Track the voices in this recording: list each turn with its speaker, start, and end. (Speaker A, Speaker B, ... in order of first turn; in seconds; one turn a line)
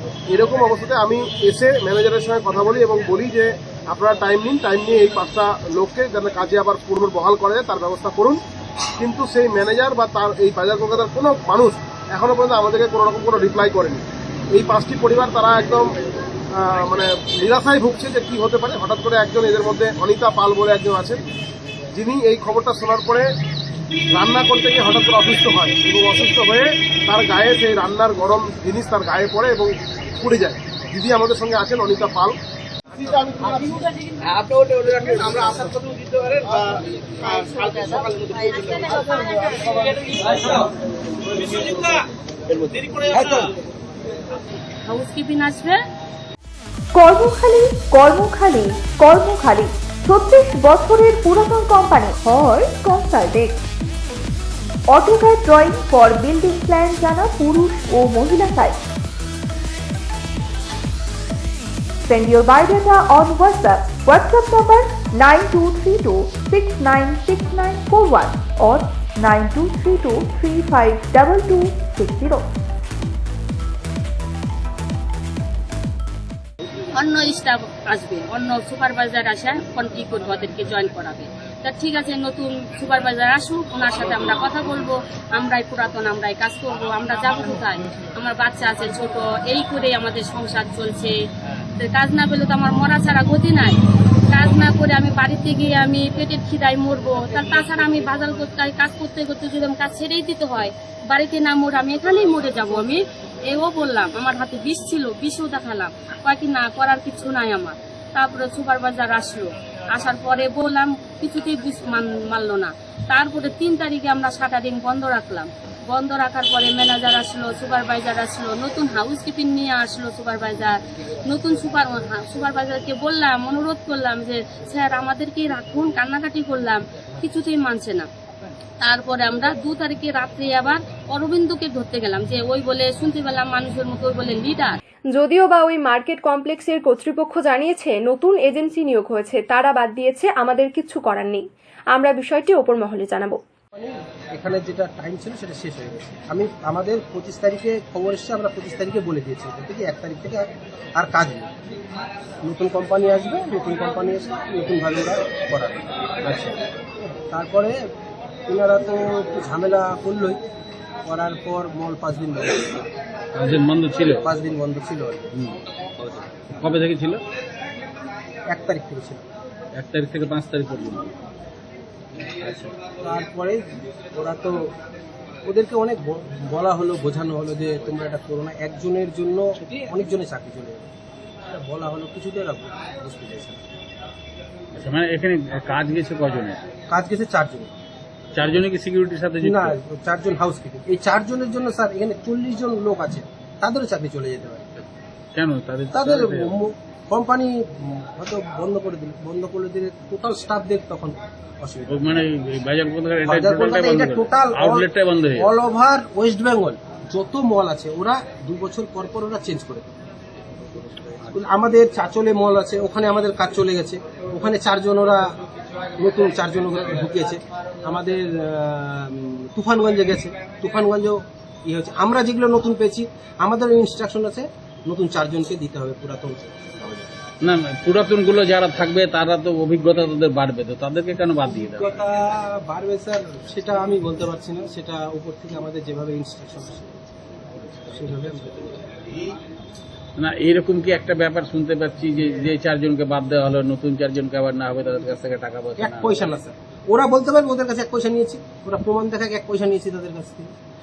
Speaker A: 0.3-8.4
Speaker A: 9.0-15.9
Speaker A: 16.6-21.2
Speaker A: 21.9-23.3
Speaker A: 24.1-32.4
Speaker B: 33.1-33.6
Speaker B: 34.2-40.3
Speaker B: 41.5-41.9
Speaker B: 42.6-43.5
Speaker C: 44.8-45.8
Speaker D: 46.9-53.6
Speaker D: 54.9-58.8
Speaker D: 62.0-72.5
Speaker C: 76.9-91.1
Speaker C: 91.8-93.8
Speaker C: 94.3-128.1
Speaker C: 128.8-134.8
Speaker E: 135.1-141.4
Speaker E: 141.9-143.4
Speaker B: 143.8-151.5
Speaker B: 152.4-156.5
Speaker B: 157.0-157.8
Speaker B: 158.5-160.4
Speaker B: 161.1-162.8
Speaker F: 163.3-164.2
Speaker B: 164.2-165.3
Speaker F: 165.3-167.2
Speaker B: 168.5-169.2
Speaker F: 169.8-171.1
Speaker B: 172.9-174.7
Speaker B: 175.4-180.9
Speaker B: 181.5-183.6
Speaker F: 184.8-186.6
Speaker B: 186.9-187.7
Speaker F: 188.3-189.8
Speaker B: 189.4-194.8
Speaker F: 195.3-196.6
Speaker B: 195.9-202.2
Speaker F: 201.9-205.5
Speaker B: 203.2-209.9
Speaker B: 211.3-215.3
Speaker B: 216.0-227.1
Speaker F: 227.4-232.0
Speaker B: 231.5-237.0
Speaker B: 237.9-238.8
Speaker F: 240.2-246.3
Speaker B: 245.8-250.5